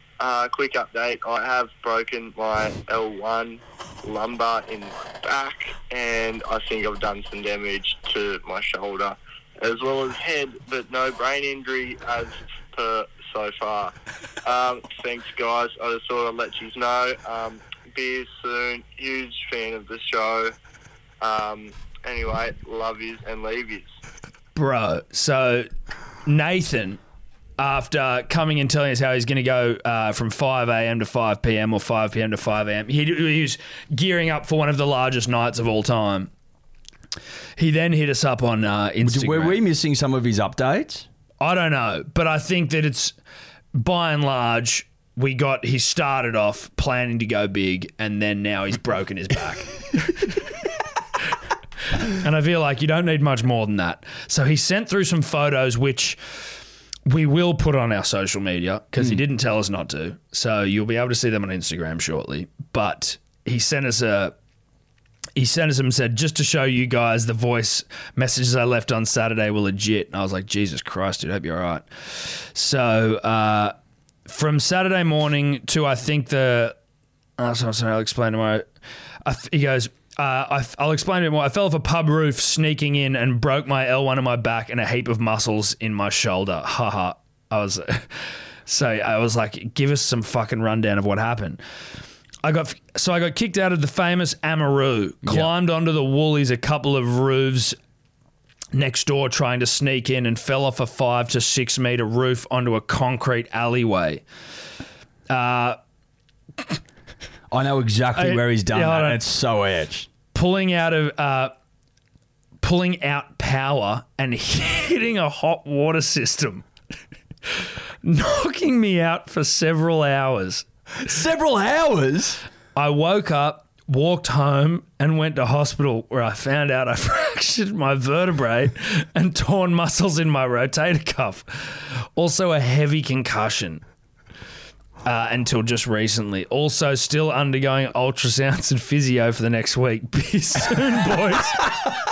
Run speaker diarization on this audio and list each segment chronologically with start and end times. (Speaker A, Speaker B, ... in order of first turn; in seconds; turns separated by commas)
Speaker A: 0.2-13.9, Speaker A: 14.4-20.5, Speaker A: 21.2-23.9, Speaker B: 24.5-25.7, Speaker B: 26.2-27.0, Speaker B: 27.6-36.3, Speaker B: 37.6-39.6, Speaker C: 39.0-41.0, Speaker B: 41.4-43.1, Speaker B: 43.7-50.3, Speaker B: 52.0-56.2, Speaker B: 57.0-64.3, Speaker B: 65.3-73.7, Speaker B: 74.2-76.8, Speaker B: 77.4-78.7, Speaker B: 79.2-91.6, Speaker B: 92.4-97.8, Speaker C: 95.2-95.5, Speaker B: 98.7-104.2, Speaker B: 105.3-105.8, Speaker C: 107.5-110.1, Speaker B: 108.2-109.2, Speaker B: 110.3-111.5, Speaker B: 112.6-116.7, Speaker B: 118.0-120.6, Speaker C: 121.0-122.4, Speaker B: 122.7-133.8, Speaker B: 135.0-141.8